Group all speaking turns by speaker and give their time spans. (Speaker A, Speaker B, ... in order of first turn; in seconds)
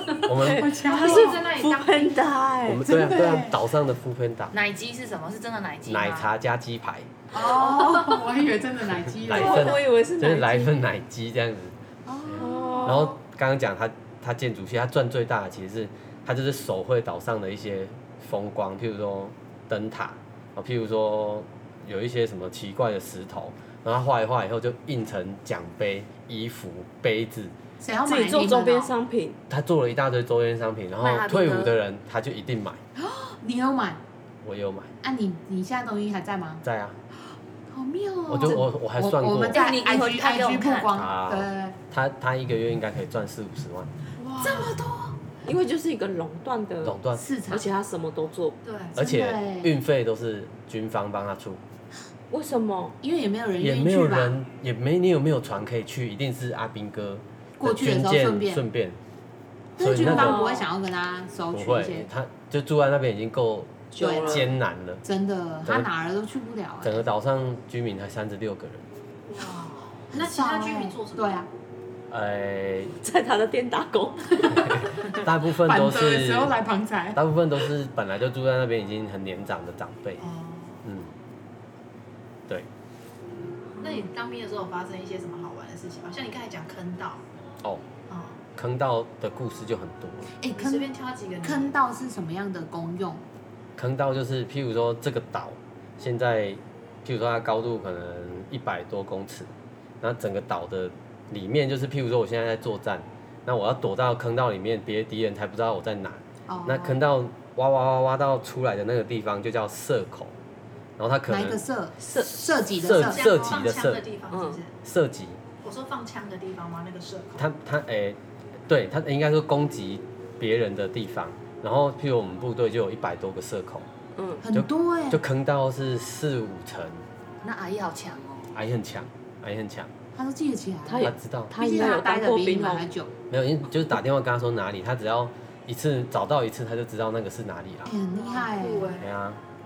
Speaker A: 0.2-0.8, 2.6-4.5, 5.8-7.1, 9.0-27.5, 29.5-32.8, 34.4-34.9, 36.6-37.0, 38.3-39.6, 40.9-43.9, 46.8-47.2, 49.0-51.6, 53.6-59.0, 59.8-60.4, 61.5-65.0, 66.8-68.8, 72.1-73.0, 74.5-76.5, 77.1-80.2, 80.8-81.1, 88.5-90.3, 93.8-110.3, 111.0-111.6, 112.7-114.0, 114.8-115.4, 117.3-123.9, 124.5-127.0, 128.5-129.9, 131.0-131.5, 133.3-137.9, 139.0-139.4
Speaker B: 0.3-2.9, 7.8-8.2, 9.3-10.7, 12.4-13.2, 28.0-29.4, 45.4-47.0, 47.5-48.6, 52.3-53.0, 60.0-60.7, 63.9-64.5, 73.0-75.1, 112.0-112.4, 114.3-114.6, 124.1-124.4, 130.8-132.8
Speaker C: 0.4-1.4, 2.8-3.6, 7.3-9.8, 12.1-13.0, 27.8-28.9, 33.0-34.0, 35.0-36.6, 37.7-41.8, 44.4-45.2, 47.2-47.7, 48.9-49.7, 53.0-54.4, 57.6-58.6, 59.8-62.1, 64.0-64.5, 65.0-67.0, 70.1-71.5, 75.4-77.2, 90.4-90.9, 91.4-93.2, 106.5-107.0, 111.3-113.3, 124.4-125.2, 130.1-133.1, 137.8-139.0
Speaker D: 0.8-2.2, 44.2-44.8, 48.6-49.0, 69.3-71.4, 80.2-80.8, 83.8-87.2, 88.1-88.4, 90.5-91.7, 112.7-114.7, 115.6-117.4, 138.1-139.1
Speaker E: 4.5-6.3, 31.0-31.7, 39.5-41.0, 127.4-128.5